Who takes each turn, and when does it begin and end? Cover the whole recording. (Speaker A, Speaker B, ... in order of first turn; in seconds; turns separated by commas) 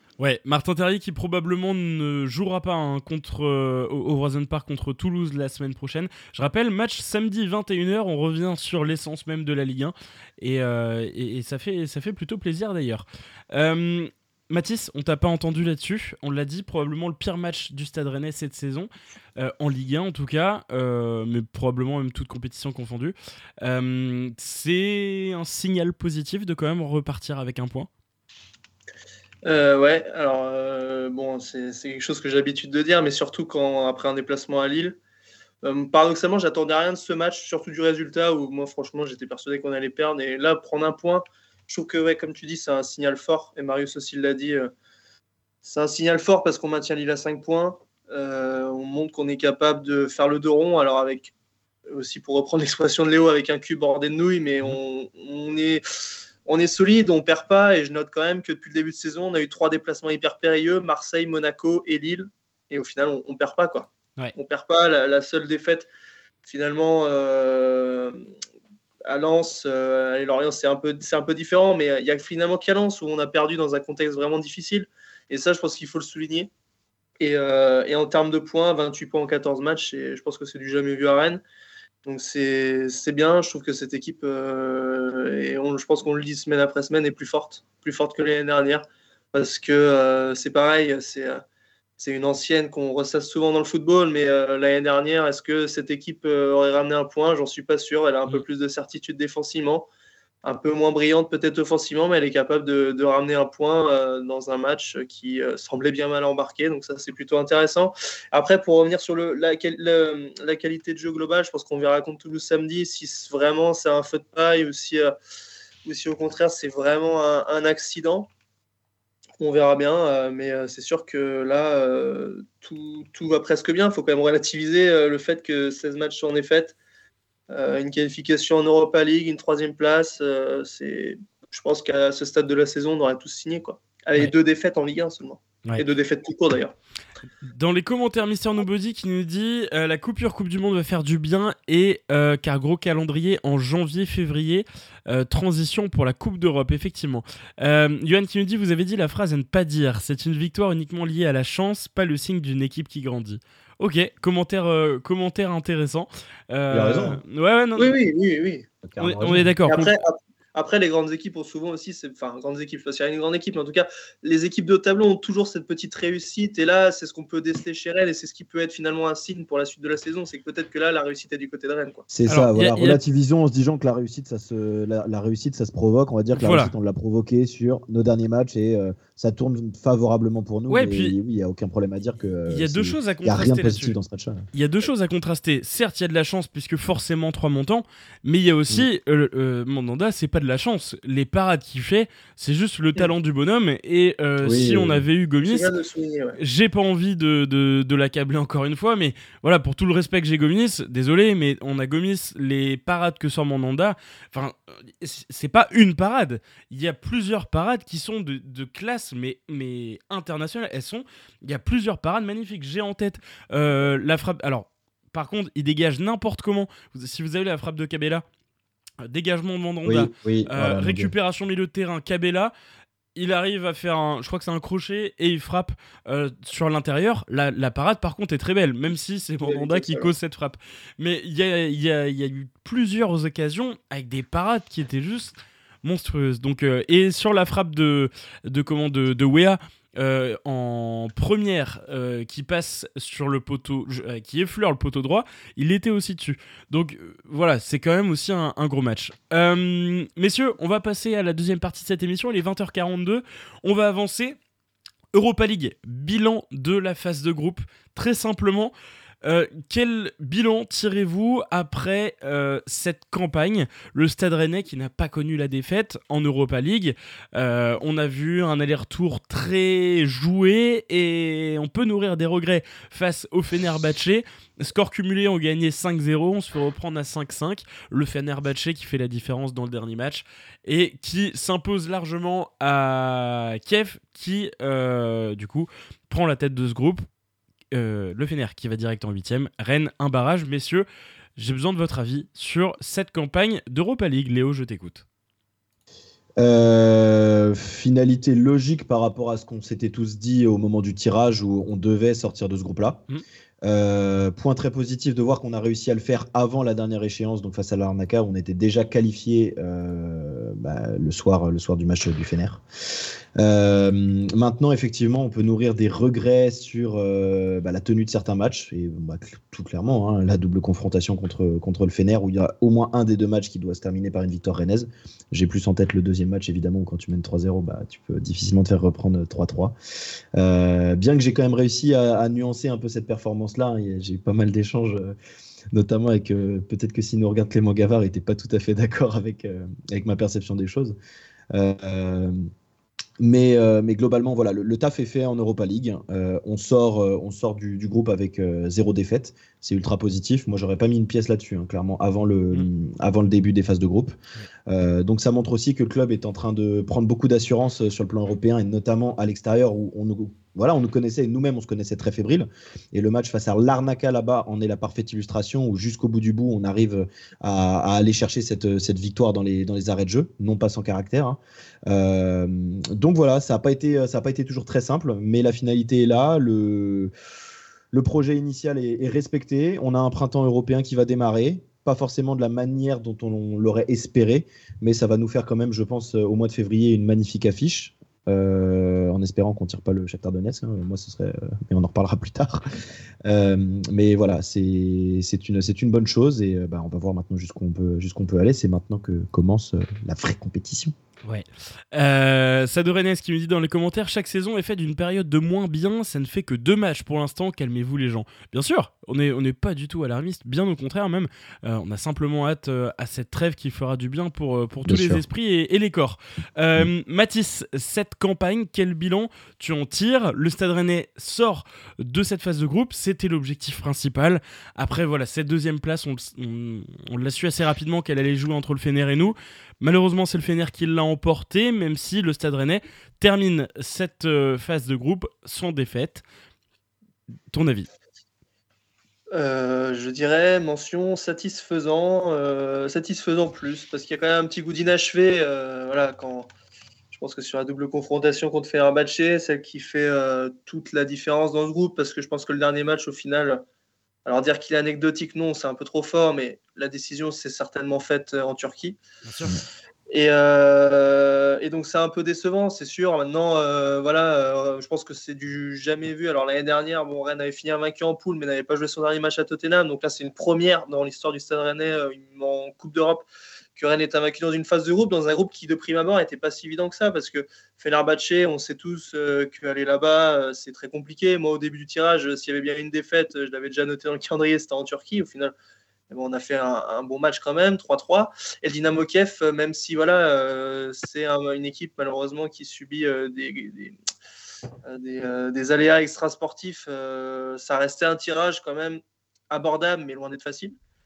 Speaker A: 0.2-27.9, Speaker B: 29.4-35.0, Speaker B: 35.6-44.7, Speaker B: 45.6-51.3, Speaker B: 51.9-55.8, Speaker B: 56.5-65.9, Speaker B: 66.5-68.2, Speaker B: 69.1-76.5, Speaker B: 77.2-81.4, Speaker B: 82.0-91.4, Speaker B: 92.0-99.9, Speaker B: 100.4-115.1, Speaker B: 115.8-118.3, Speaker B: 119.4-126.8, Speaker B: 127.5-136.7, Speaker A: 137.4-157.9, Speaker C: 156.7-157.2, Speaker B: 157.8-158.7, Speaker C: 158.8-159.5, Speaker A: 159.0-159.9, Speaker B: 159.7-172.1, Speaker C: 172.1-184.5, Speaker A: 172.3-173.0, Speaker A: 176.3-176.7, Speaker A: 180.7-181.2, Speaker A: 182.5-184.0, Speaker A: 184.5-195.7, Speaker C: 194.4-195.0, Speaker B: 195.4-196.4, Speaker A: 196.4-218.2, Speaker A: 219.1-222.5, Speaker C: 219.8-221.1, Speaker A: 223.2-254.4, Speaker B: 229.4-230.1, Speaker A: 255.1-258.7, Speaker A: 259.2-287.1, Speaker A: 287.7-295.1, Speaker C: 296.4-303.0, Speaker C: 303.6-312.6, Speaker C: 313.4-329.8, Speaker C: 330.4-335.1, Speaker C: 335.7-341.0, Speaker C: 341.5-342.4, Speaker C: 343.2-354.2, Speaker C: 354.7-377.1, Speaker C: 377.9-392.6, Speaker C: 393.2-400.9, Speaker A: 401.2-436.2, Speaker C: 414.9-415.2, Speaker A: 437.5-437.9, Speaker B: 439.3-446.5, Speaker B: 447.1-453.6, Speaker B: 454.3-459.0, Speaker A: 459.3-459.6, Speaker B: 460.1-473.2, Speaker B: 473.8-485.5, Speaker B: 486.1-494.0, Speaker B: 494.9-500.8